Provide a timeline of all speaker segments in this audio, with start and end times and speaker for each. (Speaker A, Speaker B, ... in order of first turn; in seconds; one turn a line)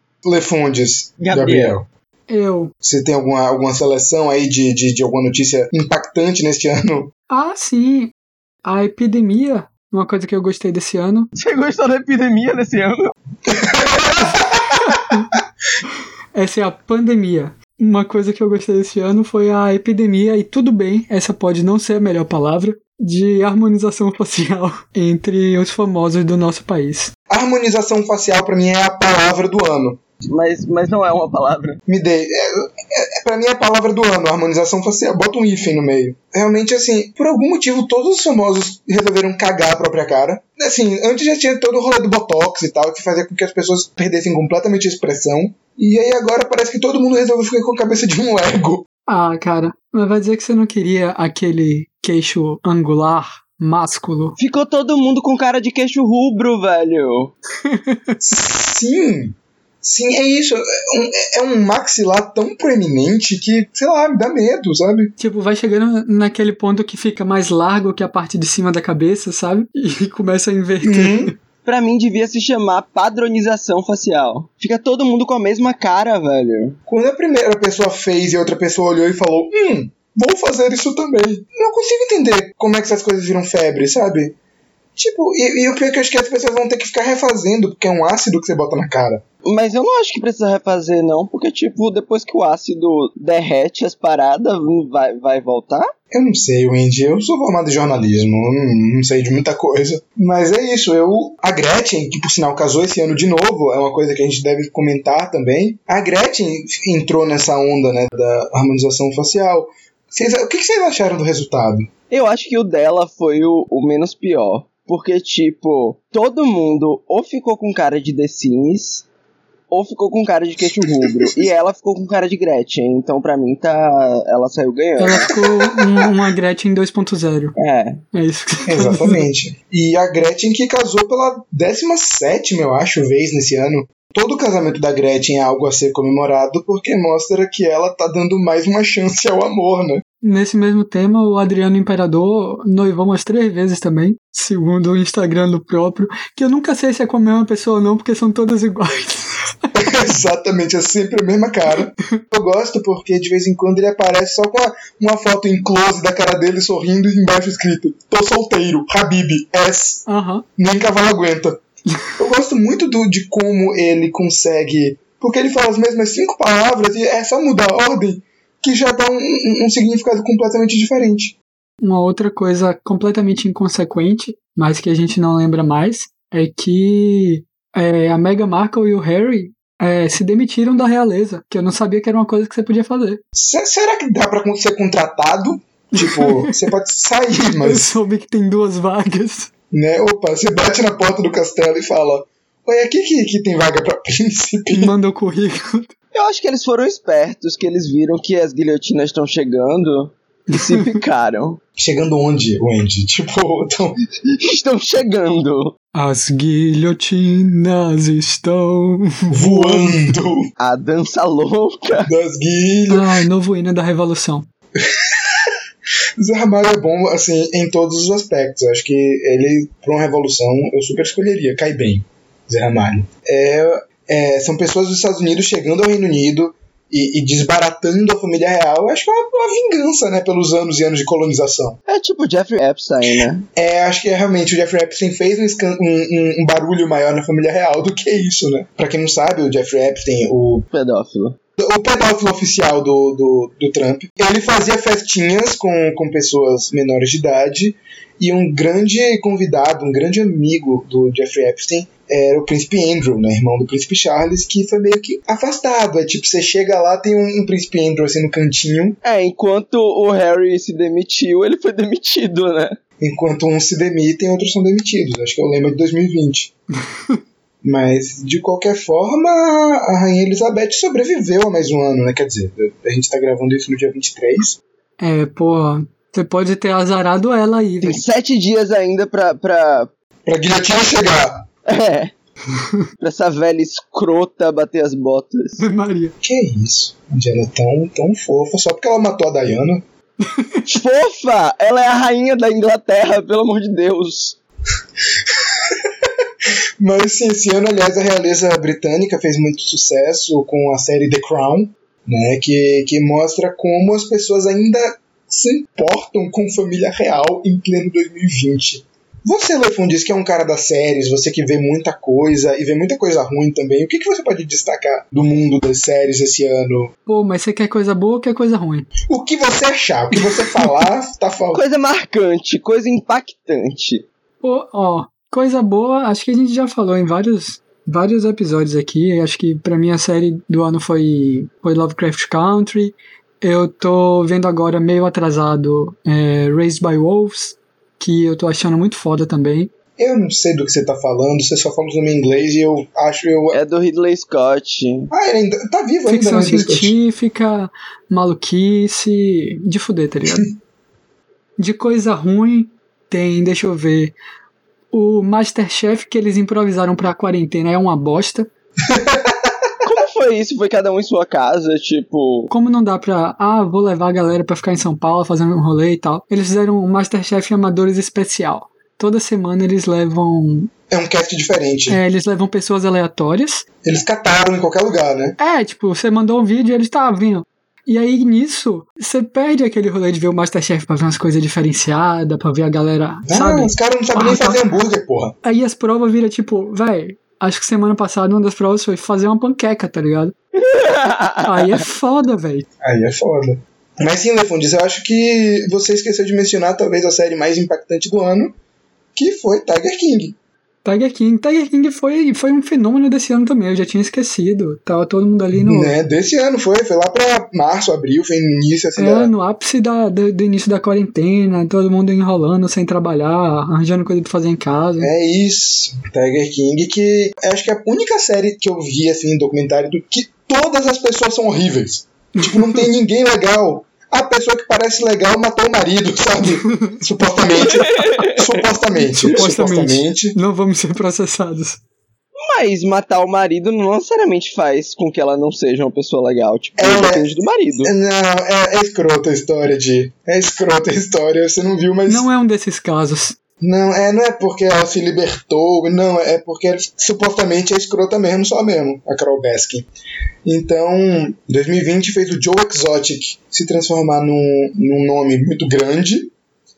Speaker A: 0.2-1.9
Speaker B: 1.2-1.8
Speaker C: 2.3-2.7
Speaker A: 2.8-7.1
Speaker C: 7.3-8.1
Speaker C: 8.7-11.3
Speaker B: 11.4-13.1
Speaker A: 13.5-15.0
Speaker C: 14.8-15.3
Speaker C: 16.4-27.1
Speaker A: 27.3-30.0
Speaker B: 30.2-31.8
Speaker A: 31.9-48.9
Speaker C: 49.1-54.4
Speaker B: 54.4-57.4
Speaker C: 57.6-58.1
Speaker A: 58.2-65.1
Speaker C: 65.2-71.3
Speaker A: 70.8-71.3
Speaker B: 71.7-76.8
Speaker A: 76.9-84.4
Speaker A: 85.0-89.2
Speaker B: 89.5-95.9
Speaker A: 96.1-111.9
Speaker B: 112.1-119.1
Speaker B: 119.7-125.3
Speaker A: 120.8-121.4
Speaker C: 125.0-127.5
Speaker B: 127.6-128.0
Speaker C: 128.1-129.2
Speaker A: 128.7-140.0
Speaker C: 140.2-149.5
Speaker A: 149.8-160.1
Speaker C: 151.8-152.2
Speaker C: 160.1-160.4
Speaker A: 160.6-161.6
Speaker A: 162.2-171.4
Speaker C: 171.8-183.2
Speaker A: 183.3-187.9
Speaker C: 186.0-186.6
Speaker C: 187.4-189.5
Speaker A: 189.7-194.9
Speaker C: 194.7-195.9
Speaker B: 196.1-201.6
Speaker C: 200.5-200.9
Speaker A: 201.8-204.0
Speaker B: 204.3-205.8
Speaker C: 205.9-210.0
Speaker A: 209.3-210.5
Speaker B: 210.6-212.1
Speaker A: 212.1-213.1
Speaker C: 212.9-214.5
Speaker A: 214.8-215.5
Speaker A: 216.2-231.8
Speaker B: 231.9-233.5
Speaker A: 233.6-240.7
Speaker B: 240.7-241.4
Speaker A: 241.6-259.0
Speaker B: 259.0-262.8
Speaker A: 263.0-266.5
Speaker A: 267.6-274.6
Speaker C: 275.0-278.0
Speaker B: 277.8-279.9
Speaker A: 280.3-281.5
Speaker B: 281.7-282.1
Speaker C: 282.5-282.8
Speaker B: 283.0-285.6
Speaker C: 285.6-286.1
Speaker A: 286.2-289.9
Speaker C: 290.2-290.6
Speaker B: 290.7-294.4
Speaker A: 295.3-296.1
Speaker A: 296.8-316.9
Speaker C: 317.1-318.9
Speaker A: 319.1-321.6
Speaker B: 321.5-324.1
Speaker C: 324.4-339.7
Speaker A: 340.0-343.6
Speaker B: 343.5-345.1
Speaker A: 345.1-346.9
Speaker C: 346.1-350.5
Speaker C: 351.6-354.1
Speaker C: 354.9-358.5
Speaker A: 358.9-359.9
Speaker B: 359.9-362.5
Speaker C: 362.5-370.7
Speaker A: 370.9-372.0
Speaker C: 371.9-373.6
Speaker A: 373.8-375.4
Speaker C: 375.4-384.7
Speaker A: 383.3-385.4
Speaker C: 385.4-390.3
Speaker B: 390.6-391.8
Speaker C: 391.5-392.7
Speaker A: 392.8-398.6
Speaker A: 399.1-400.4
Speaker C: 400.9-406.0
Speaker A: 405.5-409.3
Speaker C: 409.0-415.1
Speaker A: 415.0-430.4
Speaker C: 422.4-422.8
Speaker C: 426.7-427.0
Speaker B: 427.8-428.4
Speaker C: 429.0-431.8
Speaker B: 432.4-437.9
Speaker A: 436.8-437.3
Speaker A: 437.8-442.3
Speaker C: 442.1-443.4
Speaker A: 443.6-449.9
Speaker A: 450.4-456.3